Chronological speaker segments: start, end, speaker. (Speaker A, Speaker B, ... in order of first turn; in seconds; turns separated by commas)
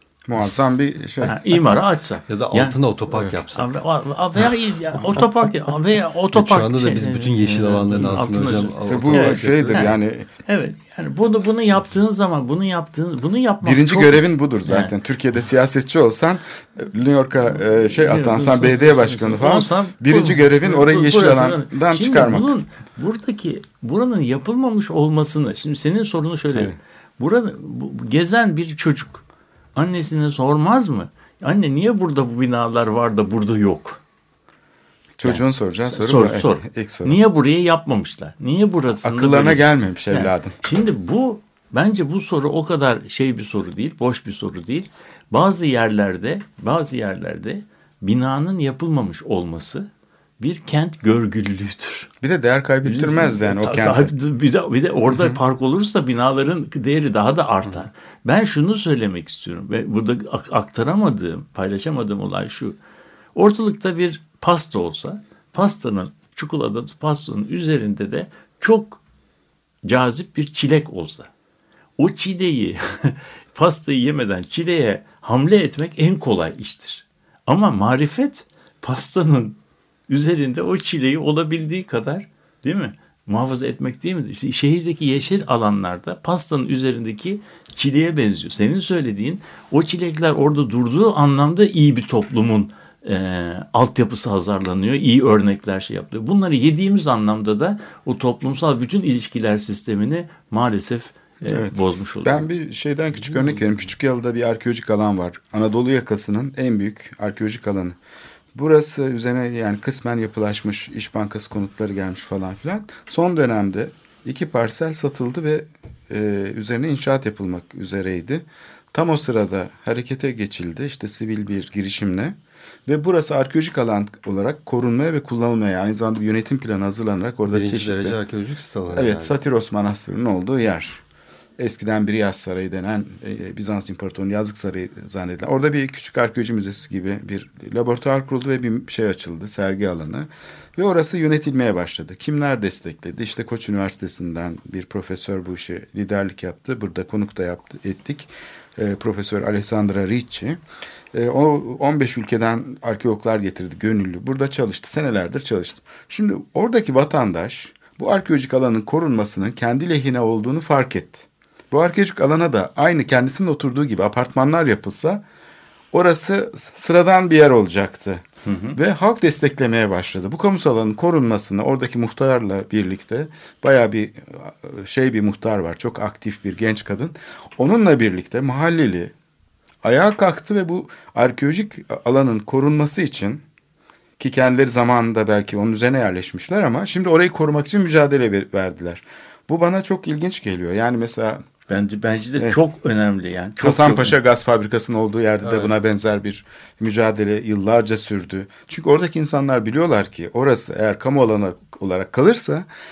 Speaker A: 0.3-1.9, Speaker B: 1.2-2.8, Speaker C: 2.3-3.7, Speaker B: 3.5-14.9, Speaker C: 6.3-9.9, Speaker A: 8.9-10.3, Speaker A: 13.6-22.5, Speaker B: 18.0-29.2, Speaker B: 29.8-34.0, Speaker A: 35.2-37.2, Speaker B: 35.2-49.9, Speaker A: 39.0-40.6, Speaker B: 50.4-52.1, Speaker A: 52.2-54.1, Speaker B: 52.9-62.8, Speaker A: 55.1-55.4, Speaker B: 63.4-69.0, Speaker B: 69.8-71.3, Speaker B: 72.0-102.5, Speaker A: 101.5-108.0, Speaker A: 108.5-128.2, Speaker C: 127.5-129.4, Speaker A: 128.9-131.0, Speaker A: 131.6-150.6, Speaker A: 151.1-165.2, Speaker A: 165.9-179.1, Speaker B: 168.4-168.8, Speaker A: 179.8-183.4, Speaker A: 184.2-191.4, Speaker B: 191.7-194.2, Speaker A: 193.6-202.7